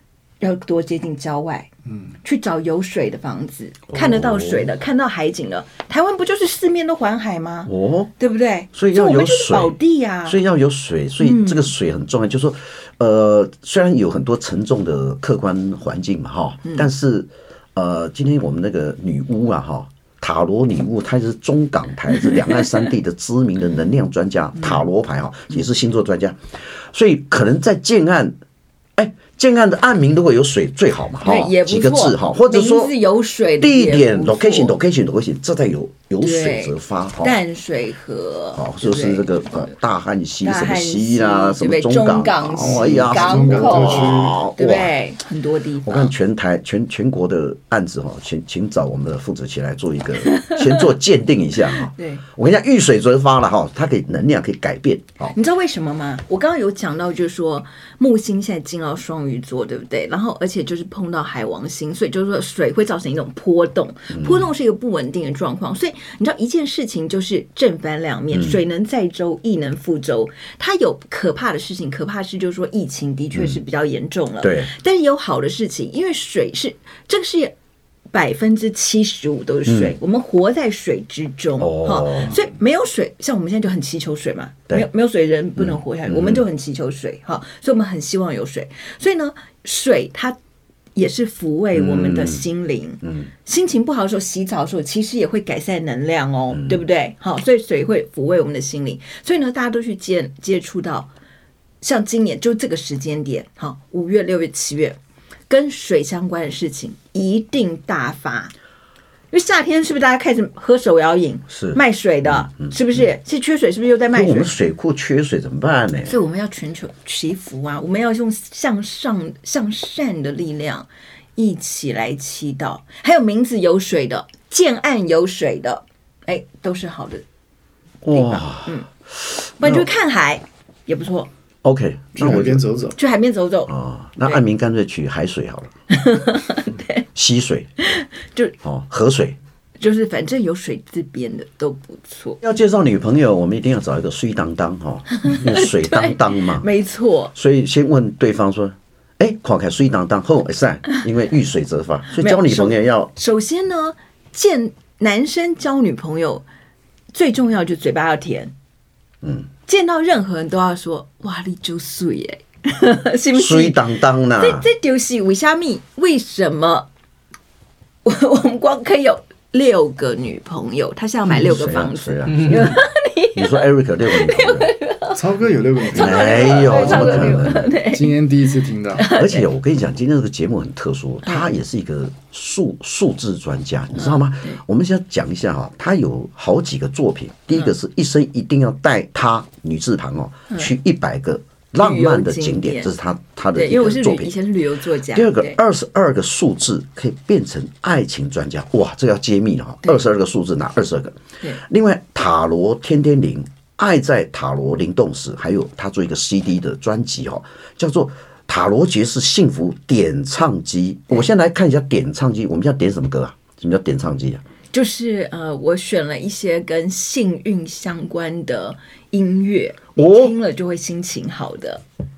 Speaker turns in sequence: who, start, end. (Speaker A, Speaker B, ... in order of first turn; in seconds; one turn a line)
Speaker A: 0.4-1.7
Speaker A: 2.2-10.4
Speaker B: 3.9-4.7
Speaker B: 7.7-8.1
Speaker B: 8.7-28.4
Speaker A: 11.2-11.7
Speaker B: 29.0-33.0
Speaker A: 31.2-34.8
Speaker B: 33.6-37.4
Speaker A: 36.2-39.7
Speaker B: 38.5-44.9
Speaker A: 40.4-46.1
Speaker C: 42.6-44.4
Speaker B: 45.8-55.4
Speaker A: 50.2-50.8
Speaker A: 51.7-52.2
Speaker A: 55.3-77.5
Speaker B: 64.1-64.5
Speaker B: 68.3-68.6
Speaker B: 74.4-74.7
Speaker A: 78.1-90.4
Speaker B: 79.7-80.0
Speaker B: 81.6-82.4
Speaker B: 85.6-86.5
Speaker A: 91.0-101.1
Speaker B: 91.7-92.5
Speaker B: 93.0-93.3
Speaker B: 96.5-96.8
Speaker A: 101.8-108.5
Speaker A: 109.3-114.5
Speaker B: 111.5-113.0
Speaker B: 114.1-116.2
Speaker A: 116.0-127.2
Speaker B: 128.0-128.8
Speaker A: 128.1-128.9
Speaker A: 129.6-131.3
Speaker B: 129.6-129.9
Speaker B: 131.6-132.7
Speaker C: 132.2-133.0
Speaker A: 133.0-133.7
Speaker B: 133.7-135.7
Speaker A: 135.9-137.1
Speaker B: 137.2-137.7
Speaker A: 137.8-138.6
Speaker B: 138.6-139.4
Speaker A: 139.8-142.4
Speaker B: 142.4-146.7
Speaker A: 145.2-147.3
Speaker B: 147.3-153.1
Speaker A: 152.1-156.4
Speaker A: 157.1-158.5
Speaker B: 159.2-159.5
Speaker A: 159.7-166.9
Speaker B: 163.3-164.7
Speaker A: 168.1-175.2
Speaker B: 171.3-174.7
Speaker C: 175.1-179.1
Speaker A: 175.8-179.5
Speaker B: 175.9-177.7
Speaker B: 179.1-194.3
Speaker A: 181.2-181.5
Speaker A: 183.9-184.6
Speaker A: 191.8-192.9
Speaker A: 193.6-195.6
Speaker B: 195.1-214.4
Speaker A: 214.7-221.8
Speaker B: 220.0-220.3